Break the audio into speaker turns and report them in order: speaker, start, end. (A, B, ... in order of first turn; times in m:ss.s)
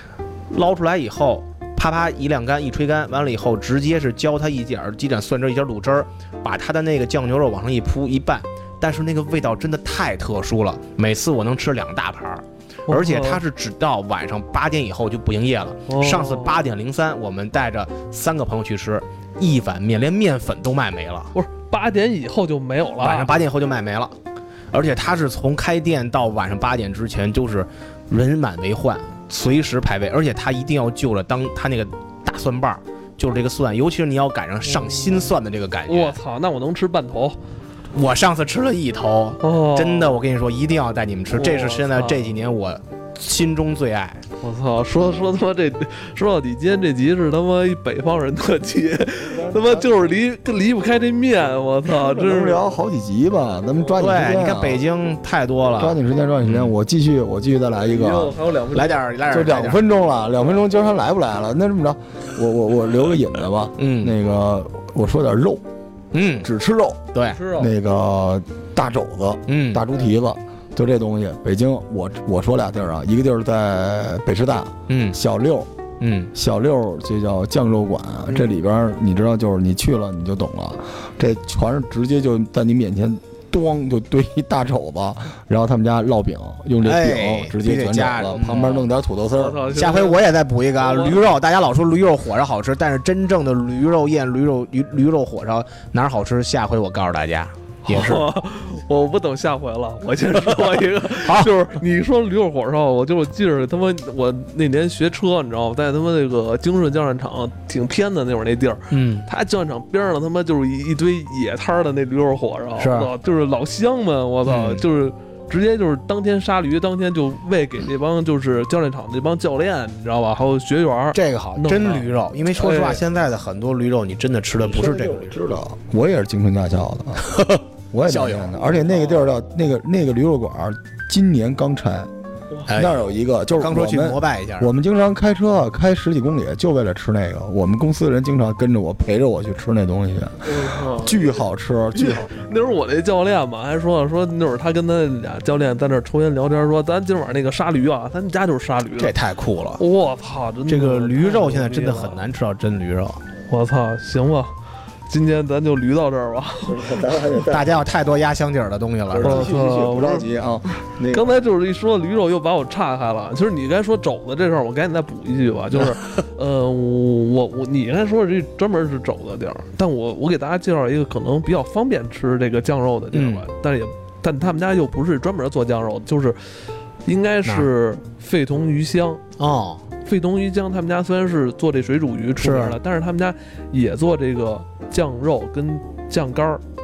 0:00.5-0:21.3 A
0:12.9-0:13.4 B
0:15.9-0:16.6 B
0:21.3-0:23.3 B
0:23.0-0:24.1 A
0:24.7-0:36.2 A
0:34.7-0:35.3 B
0:35.8-0:37.4 B
0:37.9-0:44.2 A
0:39.4-0:40.2 B
0:41.3-0:42.4 B
0:44.4-0:52.7 B
0:49.2-0:50.2 C
0:51.8-0:54.8 C
0:53.9-0:56.7 A
0:55.8-0:58.3 C
0:57.9-0:59.1 B
0:58.7-0:59.8 A
0:59.3-1:05.6 C
1:03.8-1:04.2 A
1:06.1-1:06.5 A
1:06.4-1:15.7 C
1:07.1-1:07.4 A
1:07.3-1:07.7 B
1:09.5-1:09.8 A
1:14.9-1:15.2 A
1:16.0-1:16.3 A
1:16.3-1:29.6 C
1:26.8-1:28.8 A
1:28.4-1:30.2 B
1:29.7-1:38.2 A
1:30.8-1:31.2 B
1:37.8-2:03.0 B
1:41.2-1:41.5 A
1:48.9-1:49.3 A
1:52.8-1:53.1 A
1:54.4-1:54.8 A
2:01.1-2:05.3 A
2:04.6-2:12.1 C
2:07.2-2:09.1 A
2:12.6-2:14.7 A
2:12.7-2:22.3 C
2:20.4-2:21.4 B
2:21.9-2:29.1 B
2:29.0-2:29.8 A
2:29.8-2:32.2 B
2:30.7-2:33.2 A
2:33.5-2:34.5 B
2:35.1-2:37.3 B
2:36.6-2:38.0 C
2:37.5-2:39.5 A
2:39.1-2:41.3 C
2:39.2-2:40.3 B
2:41.1-2:56.4 B
2:53.1-2:53.4 A
2:57.0-2:59.2 B
2:59.4-2:59.8 A
3:00.0-3:06.6 B
3:02.4-3:02.8 A